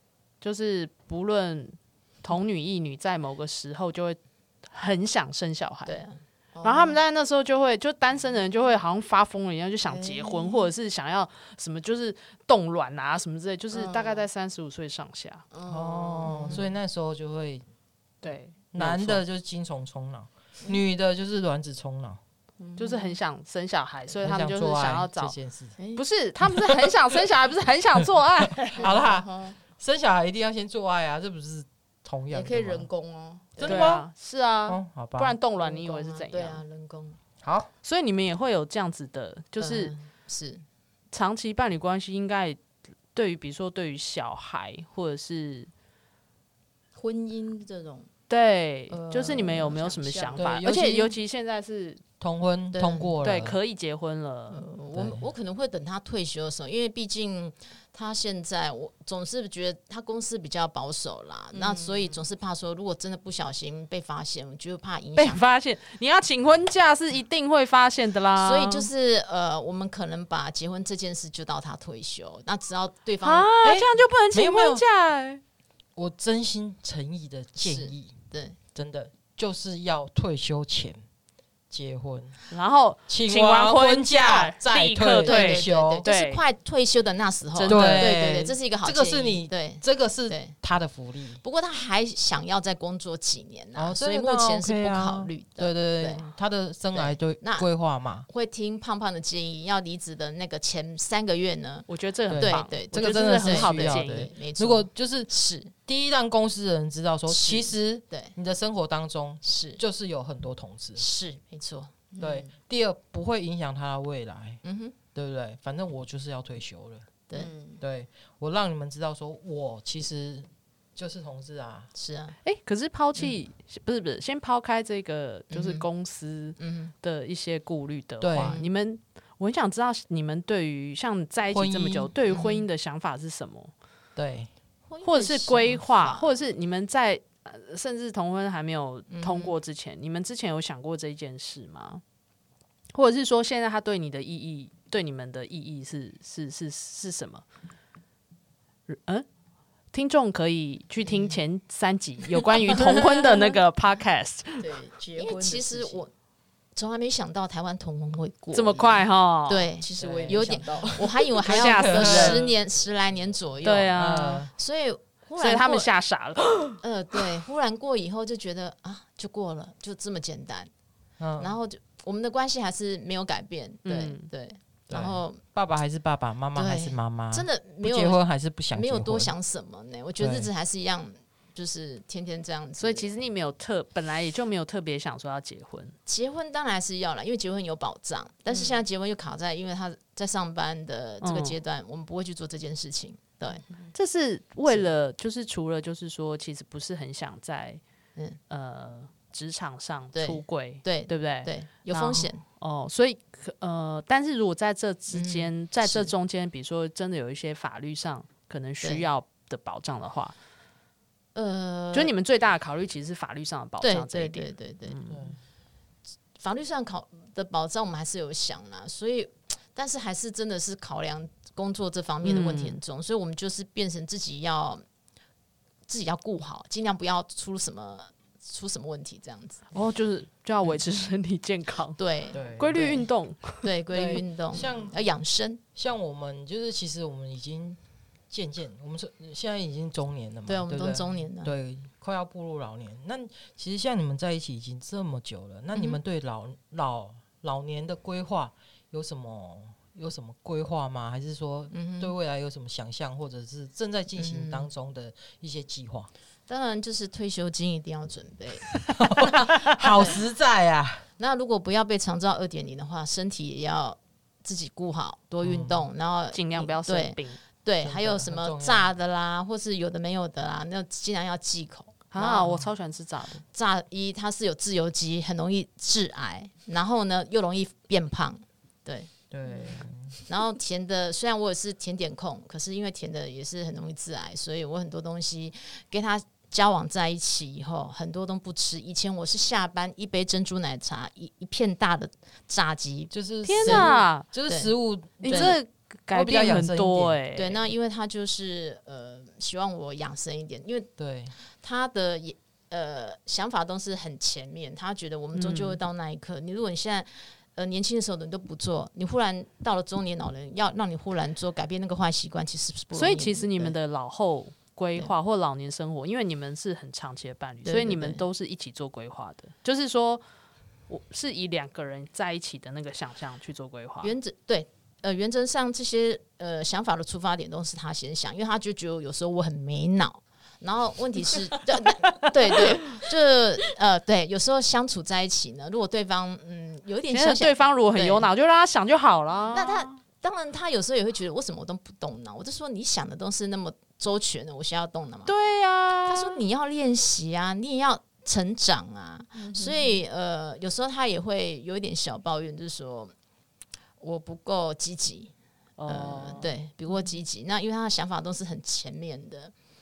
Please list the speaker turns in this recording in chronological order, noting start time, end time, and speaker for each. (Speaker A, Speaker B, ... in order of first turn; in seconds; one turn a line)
Speaker A: 0.4-6.0
Speaker B: 5.8-6.2
Speaker C: 6.5-7.0
Speaker A: 6.6-15.4
Speaker B: 9.9-10.6
Speaker C: 13.7-14.2
Speaker C: 15.5-16.6
Speaker D: 15.7-17.6
Speaker A: 18.2-19.2
Speaker D: 18.7-22.2
Speaker C: 22.6-23.2
Speaker A: 22.8-25.3
Speaker D: 24.2-25.8
Speaker A: 25.9-28.9
Speaker D: 26.4-27.2
Speaker D: 28.7-32.9
Speaker C: 28.8-29.6
Speaker C: 32.3-33.6
Speaker B: 33.5-33.9
Speaker D: 33.6-34.1
Speaker A: 33.6-36.6
Speaker D: 34.6-35.4
Speaker B: 35.6-37.2
Speaker D: 37.4-37.7
Speaker A: 37.8-39.9
Speaker B: 39.6-40.6
Speaker A: 41.1-42.6
Speaker A: 43.1-45.7
Speaker C: 46.9-48.1
Speaker A: 48.3-52.0
Speaker C: 48.9-50.7
Speaker B: 49.0-49.6
Speaker D: 50.4-51.1
Speaker D: 52.2-53.6
Speaker B: 52.7-53.1
Speaker A: 53.2-54.6
Speaker B: 54.5-65.4
Speaker D: 54.9-55.3
Speaker C: 61.5-62.2
Speaker A: 65.2-68.9
Speaker B: 68.4-73.5
Speaker A: 73.2-75.4
Speaker D: 73.6-74.8
Speaker D: 76.0-78.1
Speaker B: 77.6-78.6
Speaker D: 78.7-81.0
Speaker D: 81.7-82.4
Speaker A: 82.5-86.4
Speaker D: 83.1-86.0
Speaker B: 85.2-90.5
Speaker A: 87.5-88.0
Speaker D: 87.6-91.4
Speaker B: 91.4-96.3
Speaker D: 93.7-98.2
Speaker B: 96.9-97.7
Speaker B: 98.2-105.7
Speaker A: 101.9-104.3
Speaker D: 102.3-111.0
Speaker B: 107.3-108.3
Speaker B: 109.4-109.8
Speaker B: 111.0-111.9
Speaker C: 112.1-112.5
Speaker D: 112.2-114.6
Speaker B: 114.6-115.0
Speaker D: 115.1-117.1
Speaker C: 117.3-117.8
Speaker D: 117.8-121.9
Speaker B: 121.9-122.4
Speaker A: 122.4-133.7
Speaker B: 125.5-125.9
Speaker B: 126.6-126.9
Speaker D: 128.2-128.6
Speaker B: 128.4-128.7
Speaker D: 131.5-132.1
Speaker B: 132.3-132.7
Speaker D: 134.2-134.5
Speaker B: 134.9-136.3
Speaker A: 135.0-142.0
Speaker B: 139.1-139.5
Speaker A: 142.9-147.4
Speaker A: 148.9-149.2
Speaker A: 149.9-154.7
Speaker C: 154.6-156.0
Speaker B: 155.2-156.1
Speaker B: 156.8-164.0
Speaker A: 158.5-159.7
Speaker C: 159.8-161.3
Speaker D: 160.0-160.5
Speaker A: 161.4-162.5
Speaker D: 161.5-162.6
Speaker A: 163.6-164.5
Speaker D: 163.9-164.5
Speaker B: 164.5-165.9
Speaker A: 165.4-166.8
Speaker B: 166.8-170.7
Speaker D: 171.2-171.5
Speaker B: 171.4-175.4
Speaker A: 173.8-174.3
Speaker D: 174.9-179.3
Speaker B: 176.5-183.1
Speaker D: 180.2-180.5
Speaker A: 182.8-185.9
Speaker B: 186.1-193.6
Speaker C: 188.5-188.8
Speaker A: 191.2-191.6
Speaker A: 193.9-197.8
Speaker A: 198.5-210.3
Speaker B: 200.1-202.4
Speaker B: 205.1-206.1
Speaker B: 211.3-212.1
Speaker A: 211.9-215.2
Speaker B: 213.8-215.0
Speaker D: 215.1-215.4
Speaker B: 216.4-224.8
Speaker A: 222.2-222.8
Speaker B: 225.9-229.7
Speaker A: 229.7-232.0
Speaker B: 232.0-233.1
Speaker D: 232.3-233.0
Speaker A: 232.5-233.6
Speaker B: 233.6-235.6
Speaker D: 233.9-235.0
Speaker D: 235.7-237.8
Speaker D: 238.3-256.1
Speaker B: 240.5-241.5
Speaker B: 245.7-246.0
Speaker B: 251.7-252.1
Speaker B: 254.1-254.7
Speaker B: 256.5-258.7
Speaker D: 259.0-261.0
Speaker B: 261.2-272.6
Speaker D: 265.4-265.9
Speaker A: 266.3-267.4
Speaker D: 267.8-268.9
Speaker A: 272.1-273.4
Speaker B: 273.5-279.1
Speaker D: 279.3-280.1
Speaker C: 279.5-279.8
Speaker B: 280.3-294.7
Speaker D: 293.1-297.2
Speaker A: 293.4-294.3
Speaker B: 295.2-295.6
Speaker A: 295.2-297.6
Speaker B: 297.3-300.9
Speaker D: 301.0-301.3
Speaker B: 301.5-313.8
Speaker A: 305.3-305.8
Speaker A: 312.9-320.2
Speaker B: 317.6-318.2
Speaker A: 320.9-324.1
Speaker B: 324.0-338.3
Speaker A: 337.1-339.9
Speaker B: 339.5-345.3
Speaker A: 345.3-346.4
Speaker B: 346.1-353.1
Speaker C: 349.3-350.0
Speaker B: 354.0-355.3
Speaker A: 355.8-356.6
Speaker B: 355.9-359.5